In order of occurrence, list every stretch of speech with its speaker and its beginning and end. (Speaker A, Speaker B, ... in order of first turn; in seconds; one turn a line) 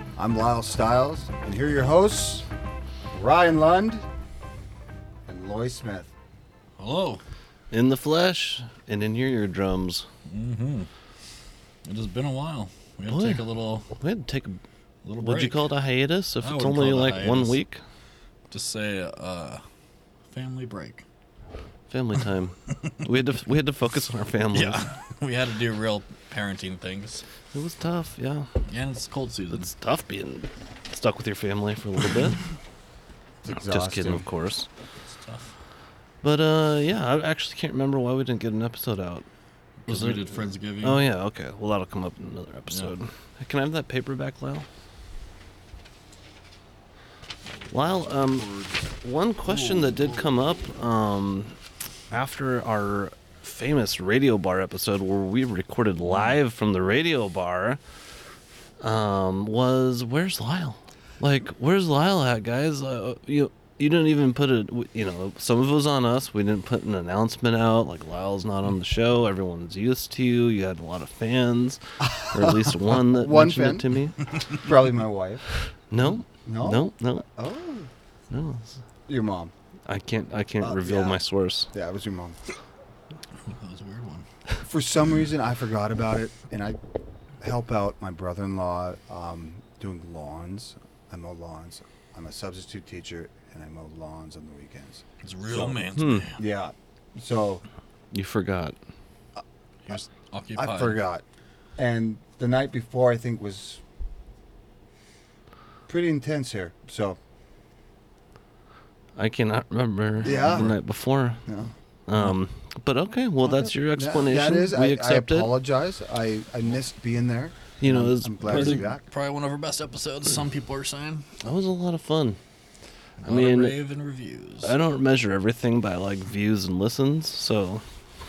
Speaker A: 0.1-2.5
Speaker A: 3.1-4.0
Speaker A: 5.3-6.1
Speaker B: 6.8-7.2
Speaker C: 7.7-10.1
Speaker B: 10.2-10.9
Speaker B: 11.8-13.9
Speaker C: 13.1-14.6
Speaker B: 15.0-15.7
Speaker C: 15.2-17.8
Speaker B: 16.4-17.6
Speaker B: 18.5-19.6
Speaker B: 20.3-21.0
Speaker C: 21.9-24.9
Speaker B: 24.5-27.2
Speaker C: 27.5-28.5
Speaker B: 28.7-29.7
Speaker C: 29.5-32.4
Speaker A: 33.4-34.2
Speaker C: 33.5-34.7
Speaker B: 35.0-35.5
Speaker C: 36.2-39.2
Speaker B: 39.9-41.0
Speaker C: 39.9-44.7
Speaker C: 47.7-51.5
Speaker B: 49.5-50.2
Speaker C: 52.1-57.8
Speaker B: 56.0-56.4
Speaker C: 58.8-74.2
Speaker A: 72.0-73.9
Speaker A: 74.5-75.5
Speaker C: 75.9-77.2
Speaker A: 76.2-77.9
Speaker C: 78.3-78.8
Speaker A: 79.1-79.5
Speaker C: 79.8-81.7
Speaker A: 80.6-81.2
Speaker A: 81.7-82.4
Speaker B: 83.4-84.3
Speaker A: 84.6-86.8
Speaker A: 87.4-95.8
Speaker B: 95.2-96.4
Speaker C: 95.9-96.3
Speaker A: 96.4-97.6
Speaker C: 98.1-98.8
Speaker B: 99.8-101.0
Speaker A: 100.5-101.2
Speaker A: 101.8-103.8
Speaker A: 105.9-107.2
Speaker C: 109.2-111.4
Speaker B: 110.2-110.7
Speaker A: 110.2-110.7
Speaker A: 111.5-111.7
Speaker C: 112.1-115.5
Speaker A: 113.4-119.0
Speaker C: 117.8-118.8
Speaker B: 118.4-121.3
Speaker C: 121.4-122.4
Speaker B: 123.2-124.7
Speaker C: 123.2-123.8
Speaker C: 124.6-127.8